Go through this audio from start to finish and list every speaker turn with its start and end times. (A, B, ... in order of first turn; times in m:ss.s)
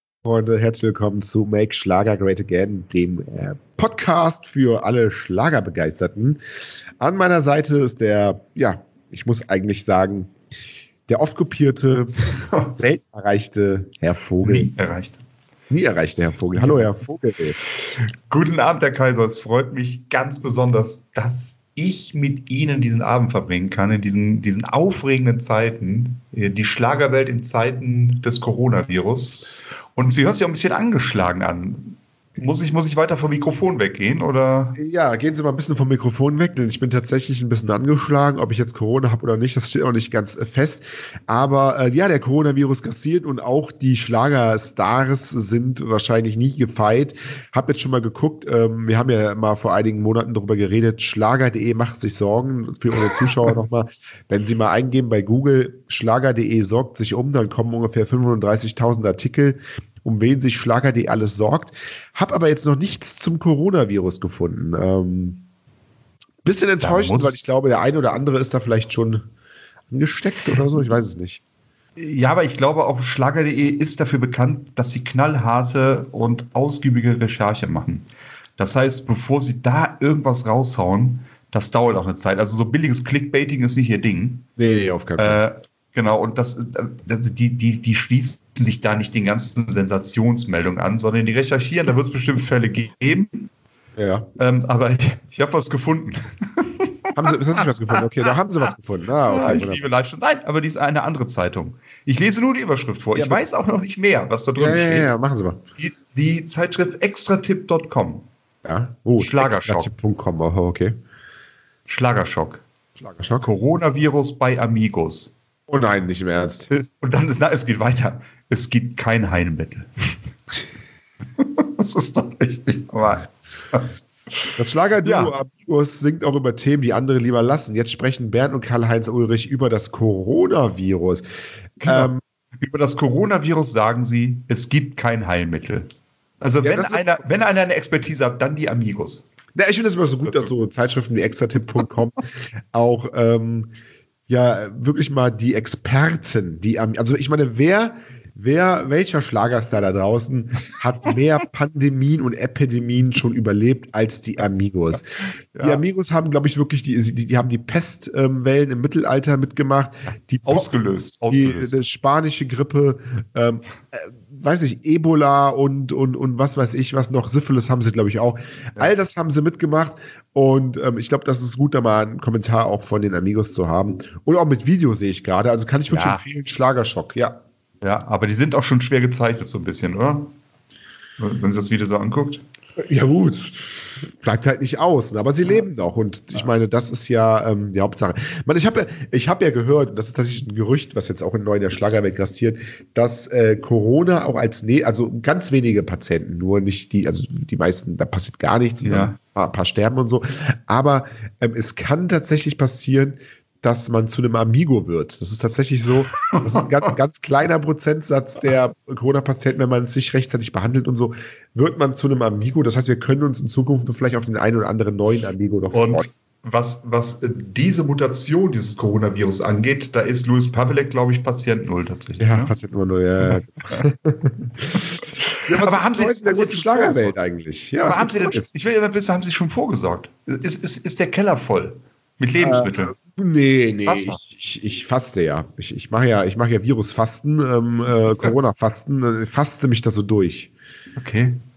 0:00.2-0:06.4 A
0:07.0-0:10.3 A
0:11.1-0:12.1 A
0:12.4-0:12.8 B
0:12.8-0:14.7 A
0:14.4-0:15.2 B
0:15.7-0:17.6 A
0:16.5-0:16.9 B
0:17.6-0:34.8 B
0:34.8-1:05.4 A
1:06.4-1:09.2 A
1:06.8-1:07.5 B
1:09.9-1:11.4 A
1:12.0-1:24.5 B
1:24.6-1:25.4 A
1:25.2-1:33.5 B
1:34.0-1:34.3 A
1:34.4-1:38.3 B
1:37.2-1:39.8 A
1:39.3-1:45.1 B
1:43.1-1:43.4 A
1:44.6-1:45.6 A
1:45.8-1:48.3 B
1:48.6-1:51.0 A
1:49.2-1:49.9 B
1:51.9-1:52.6 B
1:53.0-1:53.5 A
1:53.4-1:55.3 B
1:55.7-1:56.7 A
1:56.7-2:00.1 B
2:01.4-2:05.3 B
2:04.6-2:11.2 A
2:11.8-2:19.2 B
2:11.8-2:12.2 A
2:16.6-2:17.2 A
2:19.5-2:23.7 A
2:20.2-2:20.5 B
2:24.3-2:35.0 A
2:35.5-2:35.8 B
2:35.6-2:40.7 A
2:40.4-2:41.8 B
2:41.3-2:57.4 A
2:55.9-2:56.2 B
2:57.8-3:00.3 B
3:01.2-3:02.4 B
3:02.8-3:36.1 A
3:18.8-3:19.2 B
3:26.2-3:26.9 B
3:35.7-3:42.5 B
3:42.2-3:48.5 A
3:43.2-3:43.8 B
3:44.7-3:47.2 B
3:47.8-3:52.9 B
3:52.4-4:00.5 A
3:53.8-3:54.2 B
3:58.0-3:58.5 B
4:01.0-4:01.4 B